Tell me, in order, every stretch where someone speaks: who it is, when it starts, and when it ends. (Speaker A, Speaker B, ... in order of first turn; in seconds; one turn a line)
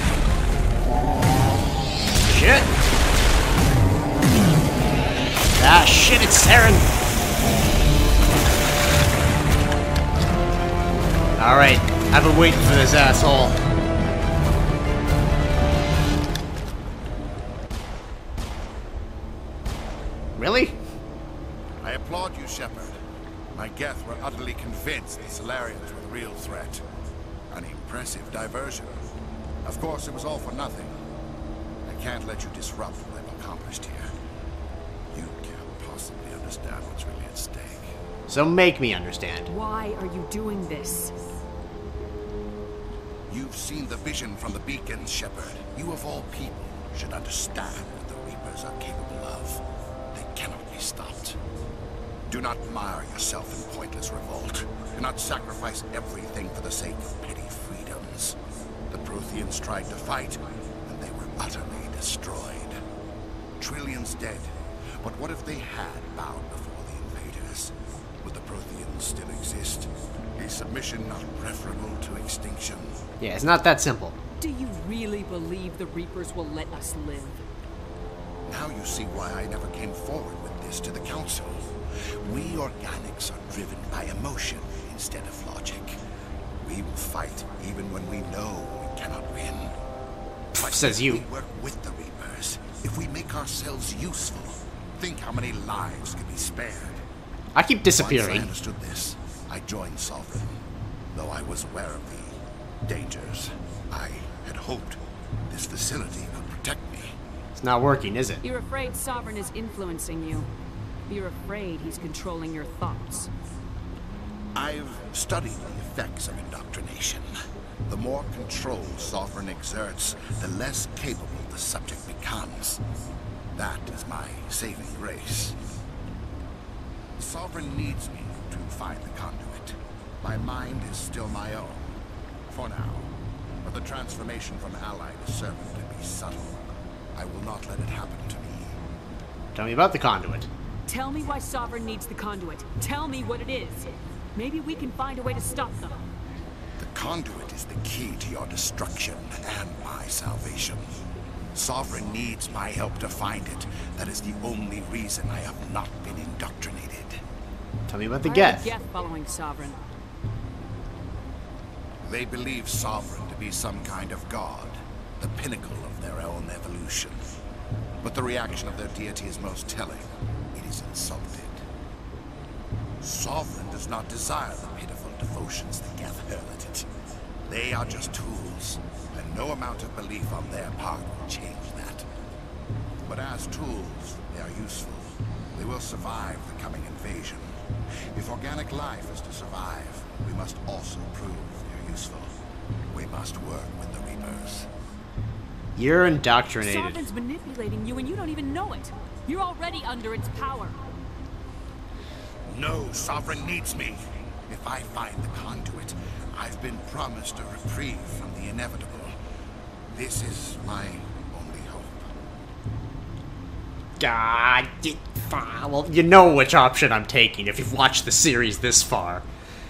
Speaker A: 2.2-2.7
Speaker A: 5.5-6.9
Speaker A: 11.4-13.6
Speaker A: 20.4-20.8
Speaker B: 21.8-22.9
Speaker B: 23.5-26.8
Speaker B: 27.5-29.0
Speaker B: 29.6-31.0
Speaker B: 31.9-34.1
Speaker B: 35.1-38.0
Speaker A: 38.3-39.5
Speaker C: 39.5-41.1
Speaker B: 43.3-51.4
Speaker B: 52.3-58.4
Speaker B: 58.9-62.8
Speaker B: 63.6-73.0
Speaker A: 73.2-74.2
Speaker C: 74.4-77.4
Speaker B: 78.5-86.0
Speaker B: 86.6-89.7
Speaker B: 90.5-97.0
Speaker A: 90.5-91.2
Speaker A: 97.5-98.5
Speaker B: 97.9-100.6
Speaker B: 101.1-107.2
Speaker A: 107.5-108.4
Speaker C: 108.4-110.5
Speaker C: 111.1-113.3
Speaker B: 114.5-117.3
Speaker B: 117.9-122.8
Speaker B: 123.5-125.5
Speaker B: 127.2-131.9
Speaker B: 132.5-133.1
Speaker B: 133.6-136.6
Speaker B: 137.1-138.8
Speaker A: 139.5-140.5
Speaker C: 140.9-146.0
Speaker B: 146.8-150.8
Speaker B: 151.5-157.2
Speaker A: 157.9-158.7
Speaker C: 158.2-159.8
Speaker B: 162.0-167.2
Speaker B: 168.0-171.6
Speaker B: 173.0-176.9
Speaker B: 177.5-182.0
Speaker B: 183.0-187.6
Speaker B: 188.1-192.3
Speaker B: 192.9-194.7
Speaker A: 195.8-197.1
Speaker C: 196.6-200.8
Speaker B: 202.5-209.1
Speaker B: 209.9-212.1
Speaker A: 214.0-219.2